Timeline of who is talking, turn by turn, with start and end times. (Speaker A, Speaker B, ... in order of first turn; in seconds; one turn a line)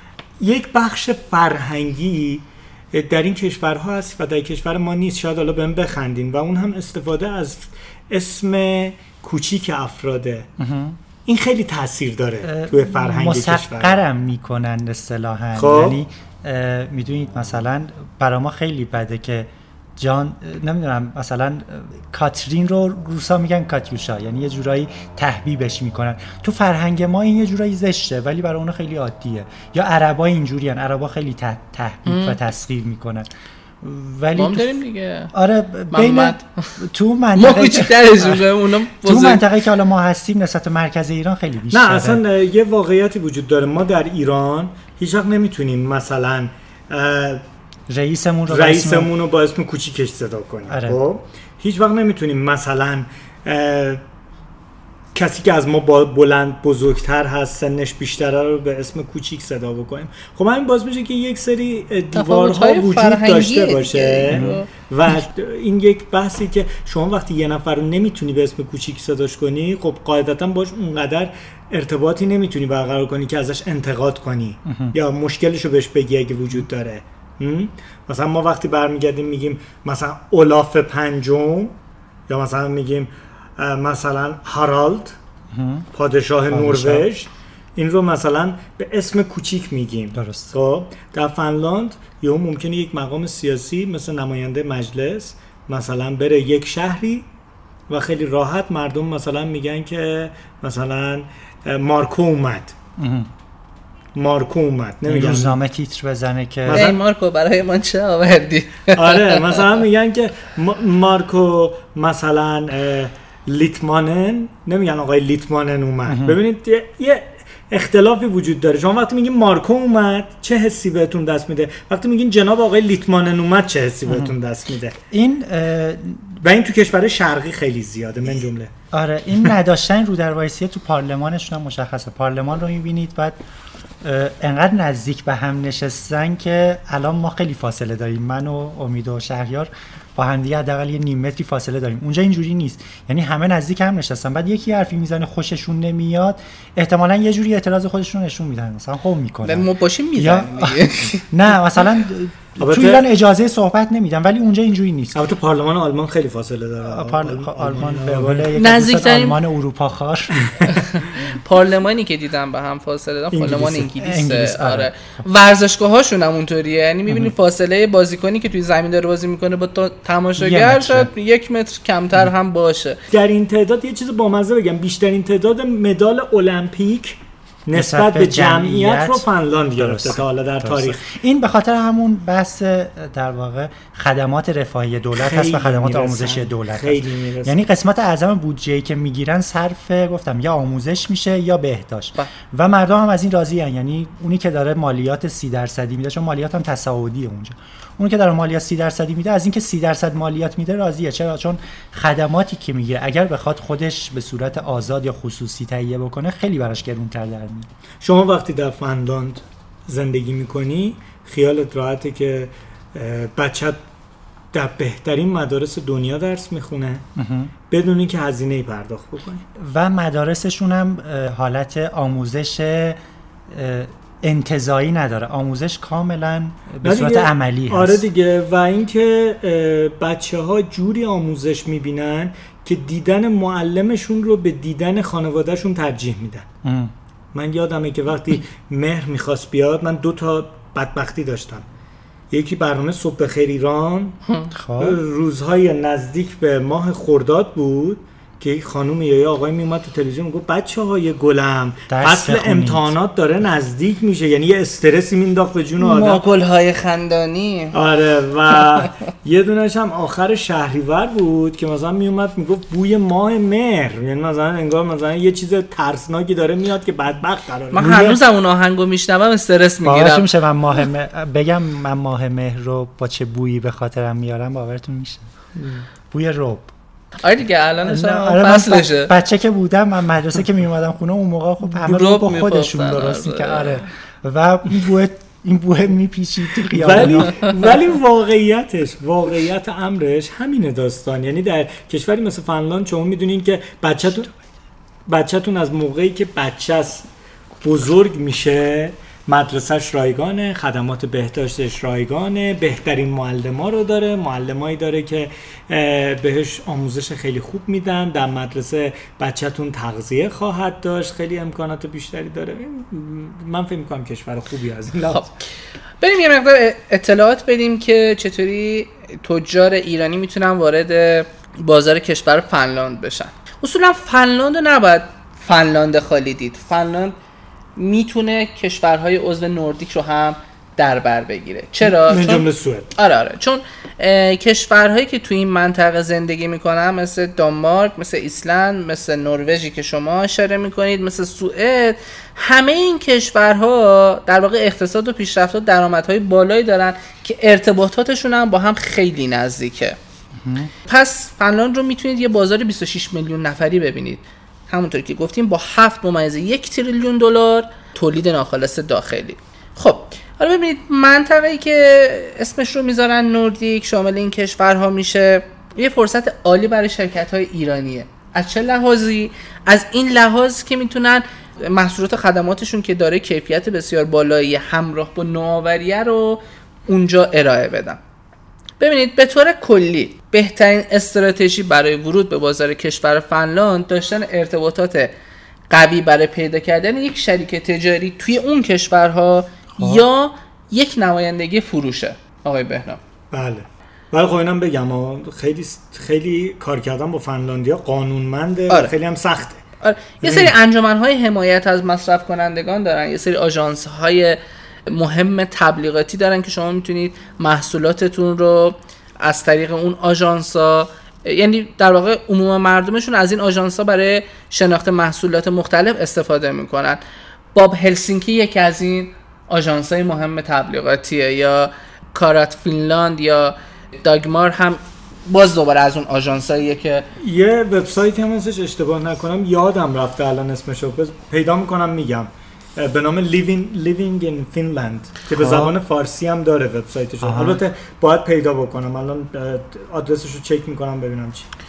Speaker A: 0.4-10.5
Speaker B: 10.6-11.0
Speaker A: 11.3-14.0
Speaker B: 12.4-33.3
Speaker A: 15.6-16.0
Speaker C: 32.1-32.4
Speaker B: 33.8-34.7
Speaker C: 34.4-35.3
Speaker B: 35.3-38.5
Speaker C: 35.9-36.7
Speaker C: 37.4-39.4
Speaker B: 39.0-42.2
Speaker A: 41.7-47.4
Speaker B: 47.9-49.1
Speaker A: 48.5-54.0
Speaker B: 50.7-51.0
Speaker A: 55.1-81.8
Speaker C: 62.1-64.7
Speaker B: 64.3-64.6
Speaker B: 74.7-75.0
Speaker A: 82.3-85.2
Speaker B: 85.5-85.9
Speaker A: 85.9-97.3
Speaker B: 86.5-87.1
Speaker B: 90.2-90.5
Speaker A: 97.9-102.8
Speaker B: 103.0-103.3
Speaker A: 104.2-105.6
Speaker B: 105.1-106.9
Speaker C: 106.7-109.6
Speaker A: 106.7-107.0
Speaker A: 108.9-125.0
Speaker B: 116.1-116.4
Speaker B: 124.1-124.3
Speaker B: 125.1-126.4
Speaker A: 126.4-128.7
Speaker B: 128.9-133.4
Speaker B: 134.0-155.3
Speaker C: 149.4-151.3
Speaker A: 152.6-153.1
Speaker A: 155.1-158.6
Speaker B: 156.9-160.8
Speaker C: 158.6-159.4
Speaker A: 160.4-160.7
Speaker C: 160.6-173.0
Speaker A: 163.3-163.9
Speaker B: 164.0-164.9
Speaker B: 170.4-171.1
Speaker A: 173.1-181.0
Speaker B: 177.7-179.3
Speaker B: 179.8-207.7
Speaker A: 185.2-187.6
Speaker A: 208.0-213.8
Speaker A: 214.5-217.0
Speaker B: 217.2-217.5
Speaker A: 217.7-219.4
Speaker B: 219.6-228.1
Speaker A: 226.8-236.5
Speaker B: 236.6-236.9
Speaker A: 237.3-241.7
Speaker A: 242.3-244.2
Speaker B: 244.5-245.0
Speaker A: 244.8-256.2
Speaker B: 251.9-252.9
Speaker C: 255.8-257.8
Speaker A: 257.7-268.1
Speaker C: 267.7-270.3
Speaker B: 267.8-268.2
Speaker B: 269.8-275.3
Speaker A: 275.6-275.9
Speaker B: 276.1-276.7
Speaker C: 277.2-279.1
Speaker B: 277.9-287.4
Speaker C: 281.7-283.9
Speaker A: 286.7-294.3
Speaker A: 295.1-297.1
Speaker A: 297.6-315.3
Speaker C: 316.0-327.2
Speaker C: 327.8-332.5
Speaker A: 331.8-332.9
Speaker C: 333.0-350.0
Speaker B: 350.4-350.7
Speaker C: 350.9-378.0
Speaker C: 378.8-385.1
Speaker C: 385.7-393.0
Speaker B: 389.8-390.0
Speaker A: 393.3-399.6
Speaker C: 399.8-417.0
Speaker A: 400.2-400.5
Speaker C: 417.5-427.1
Speaker A: 427.2-441.5
Speaker B: 435.3-435.8
Speaker B: 437.2-437.6